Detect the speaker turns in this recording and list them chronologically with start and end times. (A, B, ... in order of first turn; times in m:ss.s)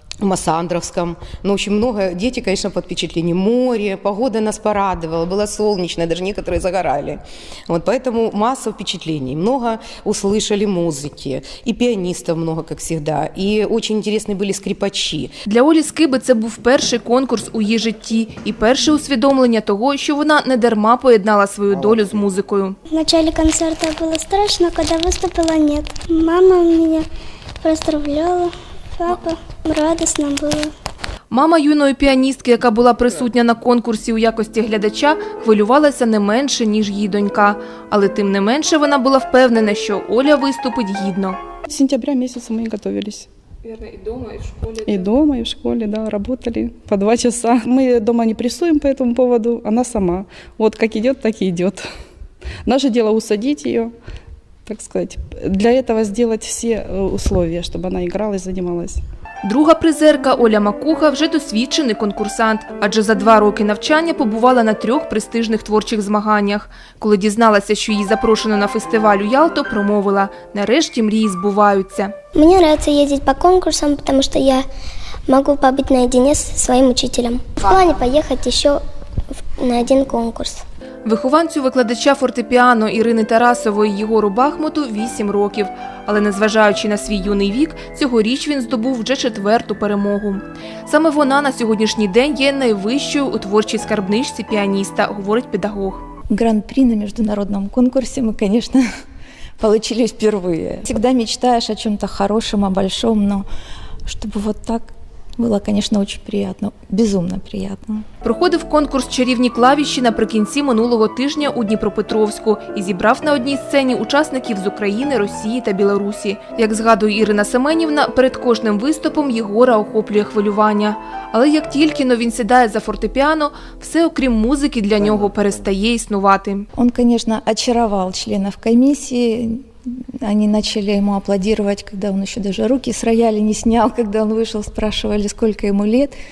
0:00.2-0:15.3 A
0:15.5-0:22.8 B
0:22.9-0:27.0 C
0:27.6-0:30.7 C
0:31.3-0:41.4 B
0:41.7-0:43.3 D
0:44.6-0:51.8 D
0:52.6-0:53.9 D
0:54.7-0:59.0 D
0:59.4-1:12.1 B
1:12.4-1:14.6 C
1:15.3-1:18.8 C
1:19.6-1:20.6 C
1:21.0-1:36.0 B
1:36.3-1:38.8 E
1:39.6-1:43.4 E
1:44.0-1:48.0 E
1:48.2-2:06.6 B
2:06.7-2:09.6 E
2:10.2-2:16.1 E